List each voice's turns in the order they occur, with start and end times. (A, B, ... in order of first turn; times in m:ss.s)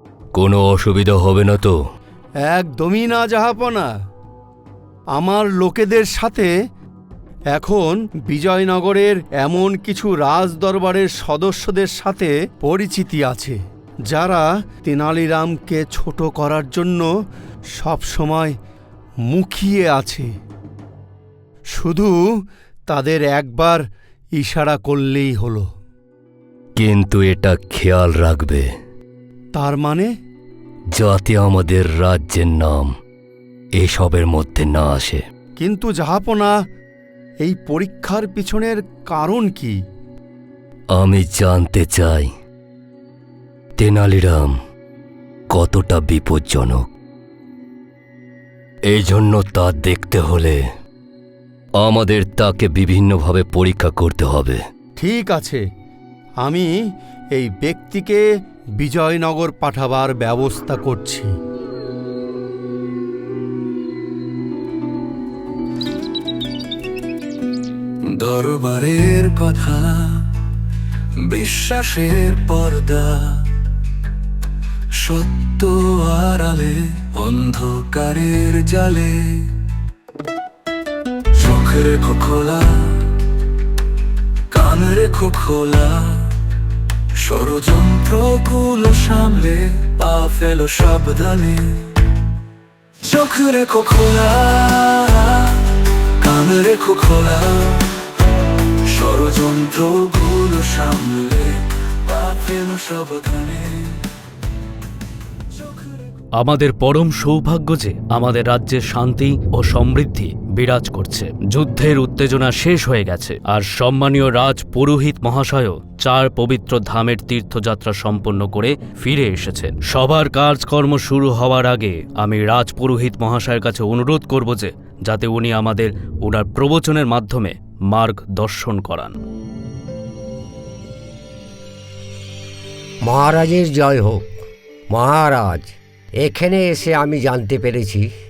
0:00.3-0:01.8 A
0:02.4-0:03.9 B
0:05.1-0:06.5 B
0:07.5-0:17.1 B
0:17.8-0:18.6 B
0:19.3-0:20.3 B
0:21.7-0:22.2 B
0:22.9-0:23.8 B
0:24.4-0:25.6 B
0:26.8-0:28.7 A
0:29.6-0:30.1 B
0:30.9-0:32.9 A
0:33.8-0:35.2 A
0:35.6-0:36.5 B
0:37.4-0:39.8 B
0:40.9-0:42.3 A
0:43.8-0:44.6 A
0:45.5-0:46.9 A
0:48.9-0:50.6 A
0:51.8-0:54.6 A
0:55.0-0:55.6 B
0:56.4-0:56.7 B
0:57.4-0:58.2 B
0:58.8-1:01.3 B
1:08.1-1:10.2 C
1:11.2-1:13.4 C
1:15.0-1:19.4 C
1:21.4-1:23.0 C
1:24.5-1:26.2 C
1:27.2-1:31.7 C
1:33.0-1:35.6 C
1:36.2-1:37.9 C
1:38.9-1:43.9 C
1:45.6-1:45.9 C
1:46.4-2:09.2 D
2:13.0-2:14.3 E
2:14.9-2:15.7 E
2:16.2-2:18.1 E